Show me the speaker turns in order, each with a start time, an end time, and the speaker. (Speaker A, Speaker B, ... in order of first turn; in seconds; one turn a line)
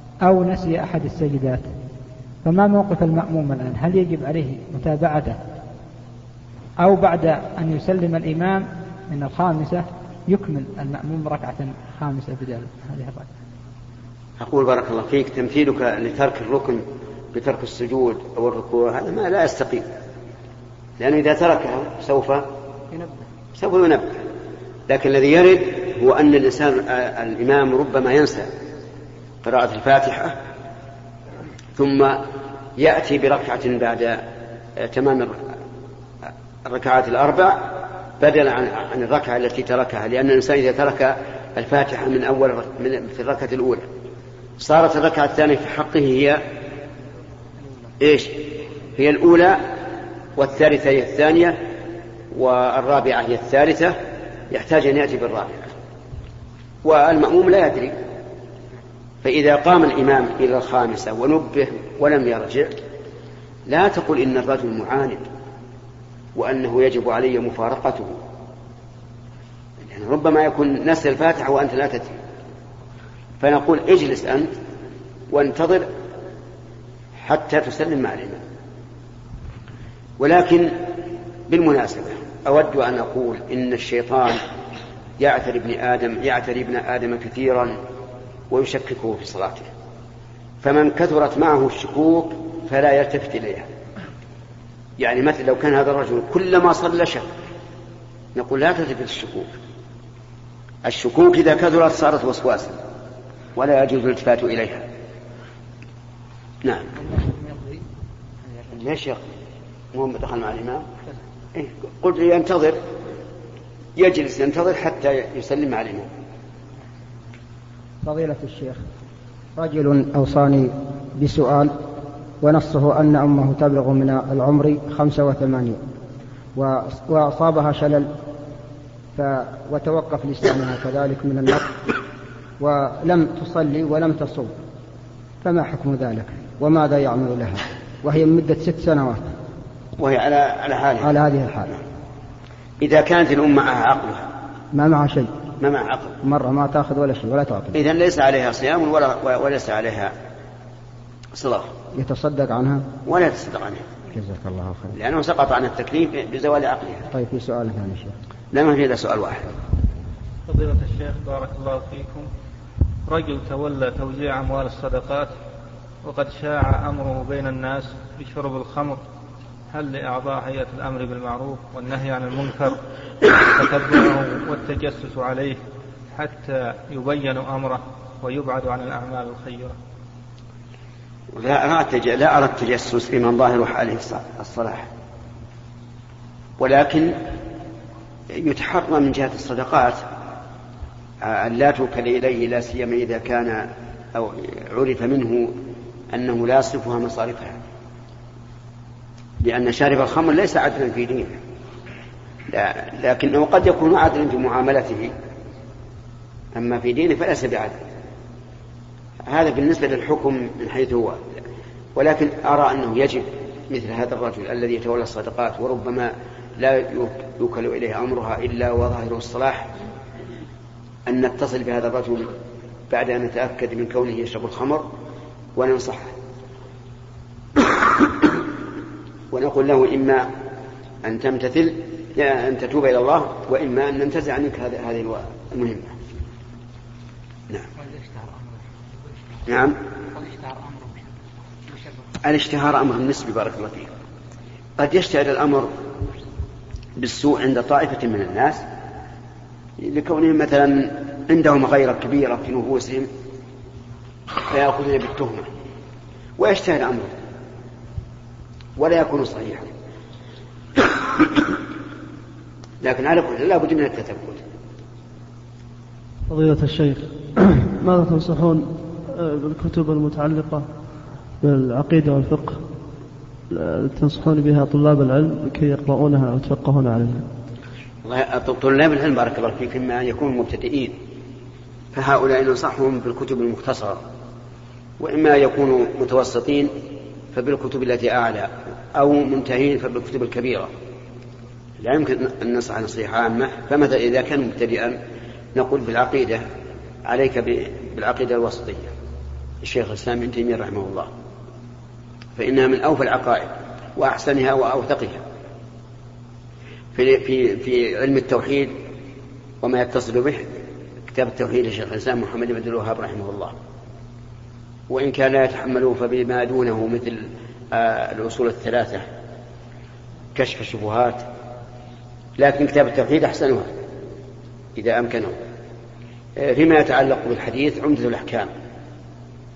Speaker A: 0.2-1.7
Speaker A: 2.4-5.4
Speaker A: 6.8-13.3
Speaker B: 14.4-19.9
Speaker B: 21.0-22.5
Speaker B: 23.6-24.1
Speaker B: 24.9-28.5
Speaker B: 29.4-30.4
Speaker B: 31.8-32.2
Speaker B: 32.8-34.2
Speaker B: 34.8-35.5
Speaker B: 36.6-43.9
Speaker B: 44.6-46.4
Speaker B: 48.0-49.6
Speaker B: 50.4-51.6
Speaker B: 52.3-54.0
Speaker B: 54.5-55.7
Speaker B: 56.8-58.0
Speaker B: 59.2-62.7
Speaker B: 63.7-65.2
Speaker B: 66.3-68.2
Speaker B: 69.8-72.1
Speaker B: 73.4-74.5
Speaker B: 75.3-75.9
Speaker B: 77.2-78.4
Speaker B: 80.2-80.8
Speaker B: 81.5-84.4
Speaker B: 85.2-87.8
Speaker B: 88.5-89.7
Speaker B: 90.6-93.7
Speaker B: 95.0-97.3
Speaker B: 98.3-99.5
Speaker B: 100.8-102.8
Speaker B: 103.6-104.8
Speaker B: 106.6-107.0
Speaker B: 108.7-109.2
Speaker B: 109.9-110.8
Speaker B: 111.5-112.8
Speaker B: 114.0-116.1
Speaker C: 118.0-118.8
Speaker C: 119.6-121.7
Speaker C: 122.4-125.8
Speaker C: 126.6-128.1
Speaker C: 129.2-131.7
Speaker C: 132.6-134.5
Speaker C: 135.4-139.3
Speaker B: 140.0-141.2
Speaker C: 141.0-141.7
Speaker B: 142.8-144.3
Speaker C: 144.7-145.3
Speaker B: 145.6-146.2
Speaker C: 146.2-147.8
Speaker B: 147.8-150.1
Speaker B: 151.3-151.7
Speaker C: 151.9-152.9
Speaker B: 153.1-153.8
Speaker C: 154.1-154.9
Speaker B: 154.9-157.1
Speaker C: 157.1-158.2
Speaker B: 158.5-159.5
Speaker D: 160.5-162.3
Speaker D: 163.1-165.3
Speaker D: 166.0-169.0
Speaker D: 169.7-175.6
Speaker D: 176.1-179.8
Speaker B: 181.3-184.9
Speaker B: 186.6-187.2
Speaker B: 188.3-190.0
Speaker B: 191.2-195.6
Speaker B: 196.1-197.6
Speaker B: 199.4-201.4
Speaker B: 202.5-205.1
Speaker B: 206.6-207.8
Speaker B: 209.3-211.2
Speaker B: 212.0-219.7
Speaker B: 221.1-222.3
Speaker B: 222.9-224.9
Speaker B: 225.6-226.2
Speaker B: 227.6-228.2
Speaker B: 229.3-230.3
Speaker B: 231.0-235.9
Speaker B: 239.5-239.8
Speaker B: 242.2-243.9
Speaker B: 244.8-245.7
Speaker B: 247.0-248.6
Speaker B: 249.8-253.1
Speaker B: 254.5-255.5
Speaker B: 256.4-257.1
Speaker B: 258.8-259.7
Speaker B: 262.8-264.4
Speaker E: 266.3-270.6
Speaker E: 271.4-272.6
Speaker E: 273.5-277.3
Speaker B: 278.0-280.9
Speaker B: 281.9-284.0
Speaker B: 285.0-286.7
Speaker B: 287.3-290.7
Speaker B: 291.8-295.0
Speaker B: 295.6-296.4
Speaker B: 297.1-298.9
Speaker B: 299.6-301.1
Speaker B: 302.4-305.2
Speaker B: 306.9-308.7
Speaker B: 309.6-310.6
Speaker B: 311.1-313.6
Speaker B: 314.9-319.1
Speaker B: 320.4-321.2
Speaker B: 322.4-323.7
Speaker B: 324.8-325.4
Speaker B: 326.4-328.5